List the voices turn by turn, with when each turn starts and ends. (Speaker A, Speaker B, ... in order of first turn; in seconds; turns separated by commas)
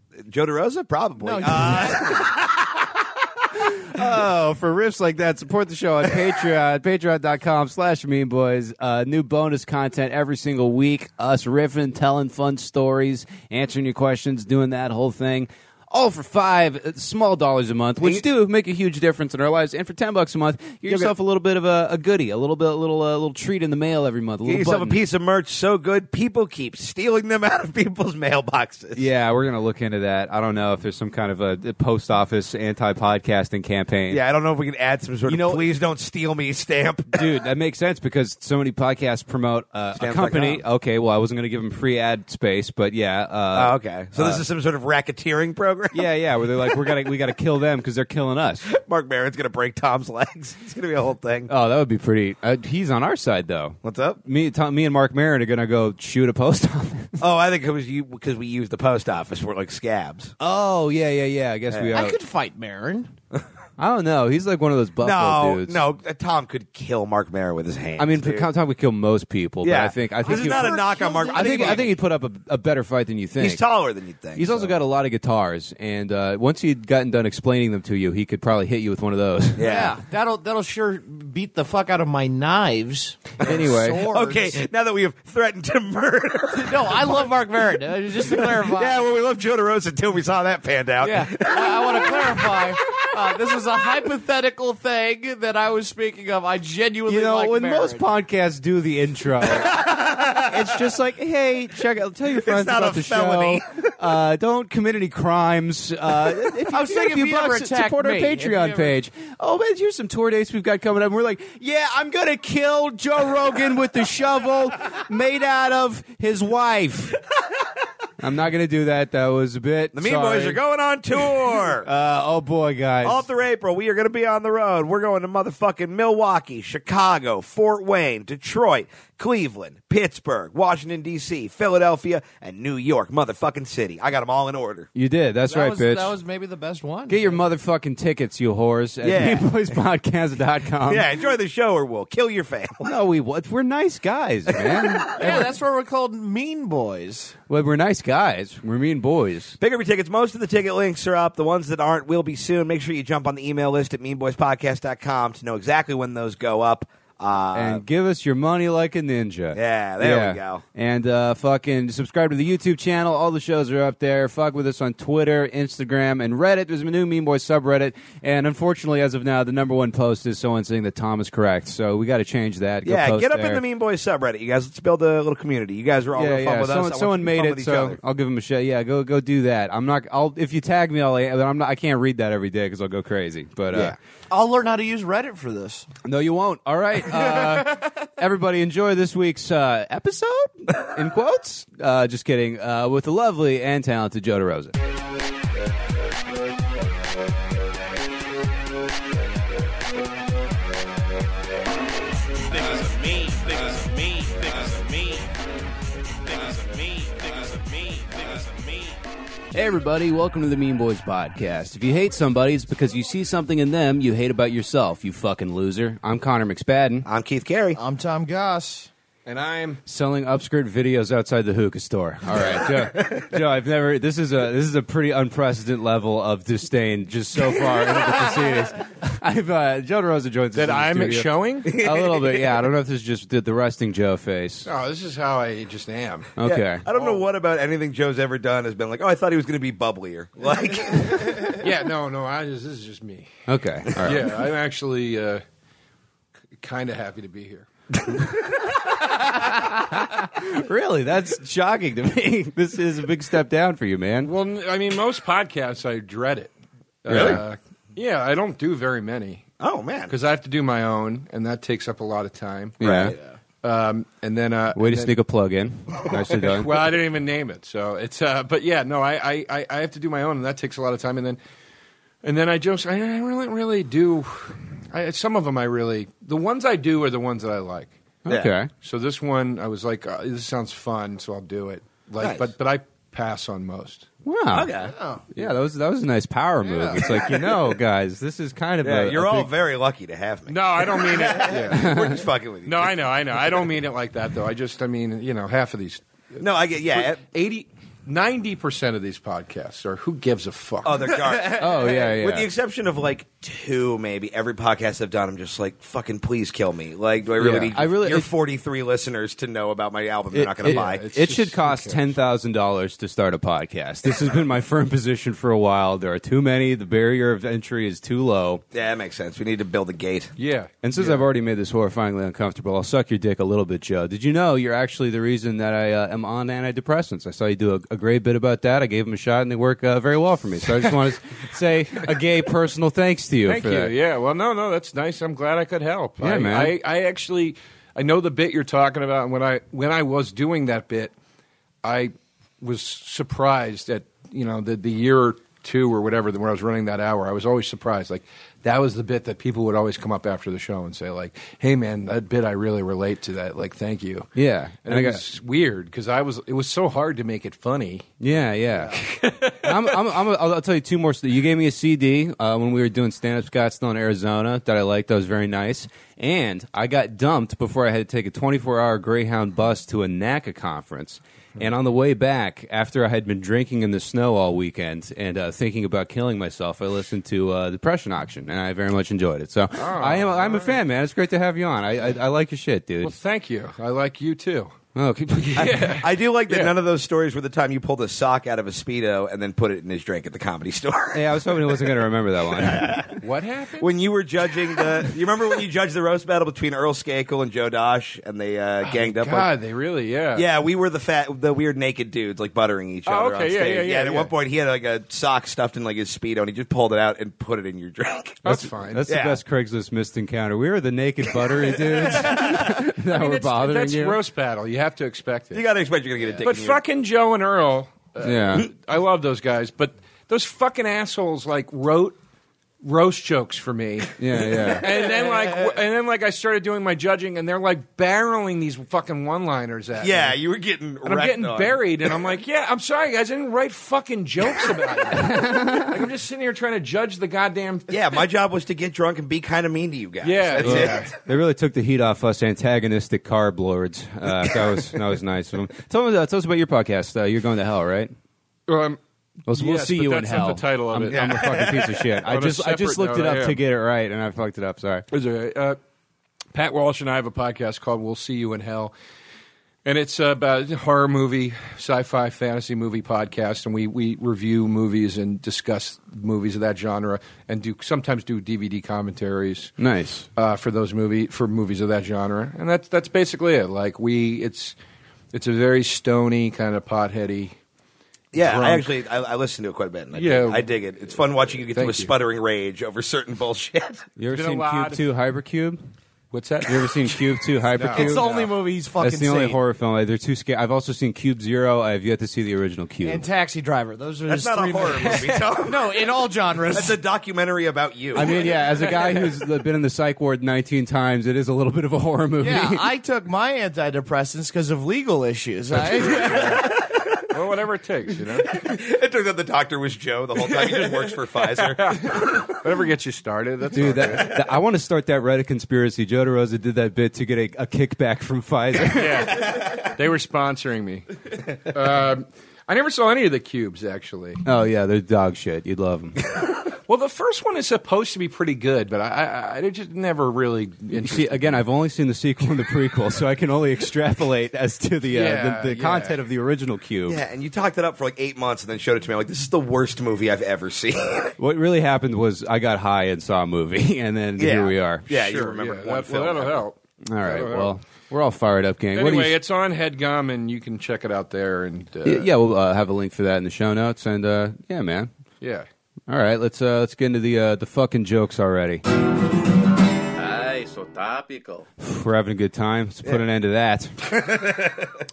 Speaker A: 0.2-2.8, Speaker B: 1.2-2.3, Speaker C: 3.6-25.0, Speaker A: 3.9-4.2, Speaker A: 20.9-21.1, Speaker A: 24.4-29.1, Speaker C: 29.0-34.2, Speaker A: 34.1-37.3, Speaker C: 35.3-35.6, Speaker C: 37.1-44.4, Speaker A: 40.0-40.6, Speaker A: 43.5-46.0, Speaker C: 45.9-48.7, Speaker A: 48.7-51.5, Speaker C: 51.5-57.2, Speaker A: 53.8-54.2, Speaker A: 57.2-60.3, Speaker C: 60.4-62.2, Speaker A: 61.7-62.0, Speaker B: 61.9-63.1, Speaker C: 63.8-65.8, Speaker A: 65.0-68.5, Speaker C: 68.0-73.6, Speaker A: 69.6-71.9, Speaker B: 70.2-71.9, Speaker A: 73.4-74.8, Speaker C: 74.3-79.7, Speaker A: 79.6-80.0, Speaker B: 79.6-84.7, Speaker C: 83.4-84.1, Speaker A: 84.1-87.3, Speaker B: 86.5-89.0, Speaker A: 88.3-93.4, Speaker B: 91.0-98.1, Speaker C: 97.1-99.8, Speaker A: 99.5-100.7, Speaker C: 100.4-117.2, Speaker A: 102.3-103.9, Speaker B: 106.7-109.0, Speaker C: 118.2-120.6, Speaker A: 119.9-121.9, Speaker C: 121.8-123.3, Speaker A: 123.0-134.9, Speaker C: 134.9-136.1, Speaker B: 135.5-137.4, Speaker C: 137.1-141.1, Speaker A: 139.0-139.8, Speaker A: 140.9-142.9, Speaker C: 142.8-145.5, Speaker A: 144.5-144.8, Speaker B: 145.1-147.3, Speaker C: 147.5-149.6, Speaker A: 149.6-157.8, Speaker C: 157.5-173.6, Speaker A: 159.5-160.6, Speaker A: 172.8-178.0, Speaker C: 176.2-184.0, Speaker B: 184.3-185.9, Speaker C: 186.1-194.8, Speaker D: 202.5-205.3, Speaker D: 206.2-209.0, Speaker C: 209.5-217.1, Speaker A: 217.1-217.8, Speaker B: 217.8-218.9, Speaker E: 219.2-219.8, Speaker C: 219.9-234.7, Speaker A: 222.7-223.3, Speaker E: 230.5-231.7, Speaker A: 231.7-232.5, Speaker E: 234.7-236.3, Speaker C: 236.4-236.8, Speaker A: 236.4-241.6, Speaker E: 236.9-237.2, Speaker E: 241.5-243.3, Speaker C: 243.5-244.3, Speaker E: 244.0-245.4, Speaker E: 246.6-247.7, Speaker C: 249.1-254.3, Speaker E: 254.2-256.5, Speaker E: 257.0-259.4, Speaker C: 257.1-257.4, Speaker A: 257.1-257.4, Speaker A: 259.6-260.1, Speaker E: 260.1-262.8, Speaker C: 262.8-263.1, Speaker A: 262.8-263.2, Speaker E: 263.6-265.1, Speaker C: 264.8-266.8, Speaker E: 266.1-271.4, Speaker E: 272.2-277.9, Speaker C: 278.3-278.7, Speaker A: 278.3-278.5, Speaker E: 278.8-284.1, Speaker A: 282.2-282.5, Speaker C: 284.2-284.7, Speaker A: 284.5-284.9, Speaker B: 284.9-285.2, Speaker C: 285.3-289.5, Speaker B: 286.6-287.0, Speaker A: 288.8-293.0, Speaker E: 290.5-291.9, Speaker C: 291.7-292.2, Speaker E: 292.6-301.2, Speaker A: 296.4-297.2, Speaker A: 300.8-311.1, Speaker C: 301.5-302.5, Speaker E: 307.4-307.7, Speaker C: 307.6-308.3, Speaker C: 310.3-318.6, Speaker E: 310.6-312.1, Speaker A: 318.7-320.3, Speaker E: 320.4-321.2, Speaker C: 320.8-333.9, Speaker E: 333.4-341.1, Speaker C: 336.2-336.7, Speaker E: 341.8-354.3, Speaker C: 354.4-355.2, Speaker E: 354.9-358.1, Speaker C: 358.2-383.1, Speaker E: 358.8-360.0, Speaker E: 379.8-380.8, Speaker E: 383.0-384.8, Speaker C: 385.0-385.9, Speaker E: 385.4-386.8, Speaker A: 385.7-391.9, Speaker C: 391.1-393.0, Speaker A: 392.5-393.2, Speaker E: 393.2-393.9, Speaker A: 393.8-399.5, Speaker E: 398.8-400.5, Speaker A: 400.3-408.4, Speaker E: 403.1-404.3, Speaker E: 408.4-409.0, Speaker C: 408.4-414.2, Speaker A: 409.1-409.4, Speaker A: 411.9-412.8, Speaker E: 412.2-415.6, Speaker A: 415.5-416.8, Speaker E: 416.4-422.2, Speaker C: 418.2-418.7, Speaker E: 422.8-430.4, Speaker C: 424.2-424.9, Speaker A: 430.0-432.1, Speaker E: 431.1-438.0, Speaker C: 435.2-435.9, Speaker A: 437.9-441.1, Speaker E: 440.2-441.1, Speaker C: 440.6-448.1, Speaker E: 448.7-449.0, Speaker C: 449.5-455.1, Speaker E: 449.5-453.6, Speaker A: 451.1-451.9, Speaker E: 455.1-455.8, Speaker E: 456.5-458.9, Speaker E: 459.9-469.7, Speaker C: 469.8-470.3, Speaker E: 470.4-474.8, Speaker E: 475.3-477.6, Speaker A: 478.3-484.1, Speaker E: 478.4-478.9, Speaker E: 480.1-480.7, Speaker E: 481.8-482.1, Speaker C: 484.2-485.9, Speaker E: 484.3-485.0, Speaker E: 486.3-487.1, Speaker C: 486.6-488.2, Speaker E: 487.7-488.5, Speaker B: 487.9-489.6, Speaker C: 489.0-493.3, Speaker B: 493.0-497.0, Speaker A: 494.3-496.0, Speaker E: 495.1-495.3, Speaker A: 496.7-498.3, Speaker C: 498.1-502.9, Speaker B: 502.4-506.7, Speaker E: 505.7-506.7, Speaker A: 506.2-507.2, Speaker E: 507.3-508.5, Speaker A: 508.4-512.5, Speaker E: 510.5-514.3, Speaker C: 513.8-519.3, Speaker E: 519.0-521.1, Speaker A: 519.5-519.8, Speaker E: 521.6-524.4, Speaker C: 524.5-526.2, Speaker E: 526.9-531.5, Speaker C: 530.9-537.2, Speaker E: 535.1-536.2, Speaker A: 537.1-541.4, Speaker C: 541.4-545.1, Speaker A: 544.4-546.6, Speaker E: 545.1-547.8, Speaker C: 547.1-549.4, Speaker E: 549.0-552.3, Speaker C: 552.0-555.1, Speaker E: 555.4-555.7, Speaker C: 556.1-558.8, Speaker D: 560.1-561.7, Speaker C: 561.8-564.2, Speaker A: 564.1-564.9